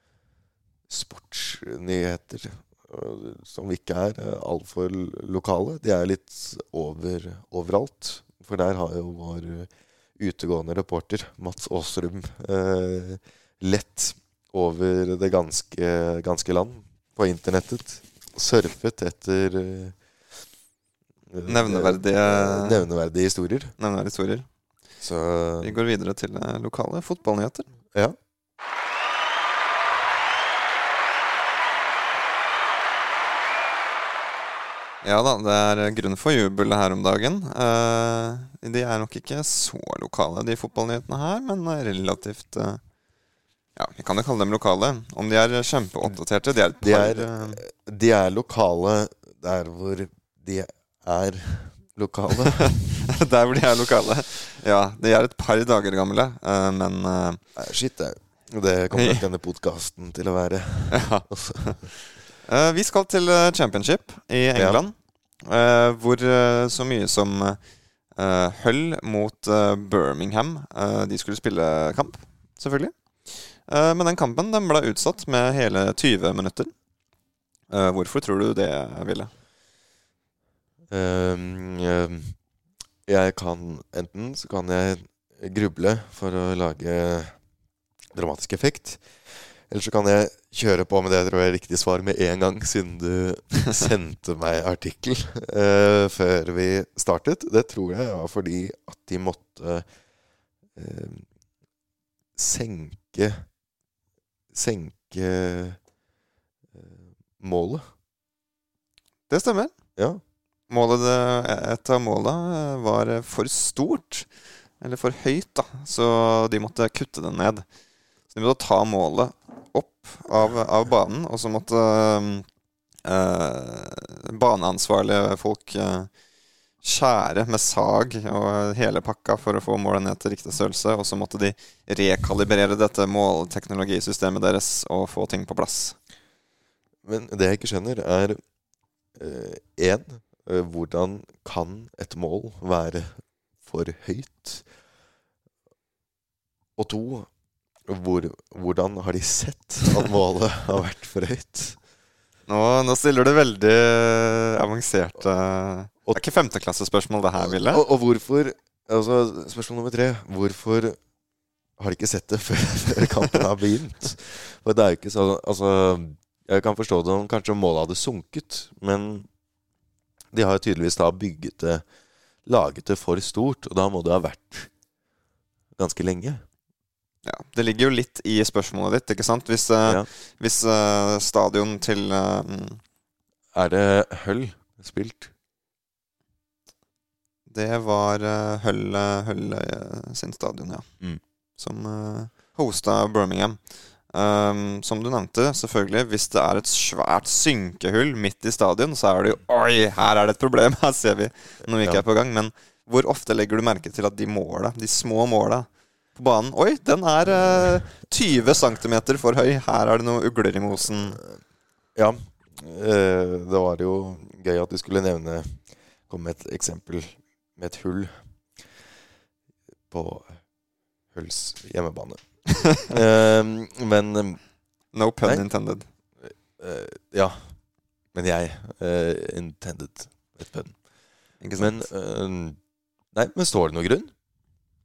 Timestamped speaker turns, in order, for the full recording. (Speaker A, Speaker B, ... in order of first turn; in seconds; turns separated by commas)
Speaker A: 0.9-20.0, Speaker A: 21.3-23.7, Speaker B: 21.5-22.9, Speaker B: 23.8-24.5, Speaker A: 25.0-25.8, Speaker B: 25.6-27.7, Speaker B: 35.0-42.8, Speaker B: 43.8-47.6, Speaker A: 46.8-53.0, Speaker B: 52.6-57.4, Speaker A: 57.6-61.9, Speaker B: 58.9-59.2, Speaker B: 60.9-61.9, Speaker B: 62.5-67.6, Speaker A: 64.5-64.8, Speaker B: 68.2-76.7, Speaker B: 77.7-79.3, Speaker A: 80.9-82.4, Speaker A: 83.1-87.4, Speaker A: 88.1-99.9, Speaker A: 100.8-101.3, Speaker A: 102.4-103.5, Speaker A: 104.5-105.8, Speaker A: 106.8-107.8, Speaker B: 109.3-109.7, Speaker A: 110.0-110.2, Speaker B: 110.7-117.7, Speaker B: 118.3-122.5, Speaker B: 123.0-126.1, Speaker B: 126.8-136.0, Speaker A: 137.1-138.4, Speaker A: 139.2-144.7, Speaker A: 146.8-147.3, Speaker A: 147.9-151.8, Speaker B: 152.5-157.8, Speaker A: 157.4-161.0, Speaker A: 161.8-169.3, Speaker A: 170.3-171.8, Speaker A: 172.5-174.7, Speaker A: 175.8-176.4, Speaker B: 177.2-182.8, Speaker A: 183.5-185.3, Speaker B: 187.5-190.9, Speaker B: 191.6-211.2, Speaker A: 211.9-218.7, Speaker A: 219.9-220.4, Speaker A: 221.1-222.2, Speaker A: 222.7-224.4, Speaker B: 224.9-225.9, Speaker A: 226.2-227.6, Speaker A: 228.1-230.8, Speaker B: 231.4-231.9, Speaker A: 231.6-232.6, Speaker A: 233.1-234.1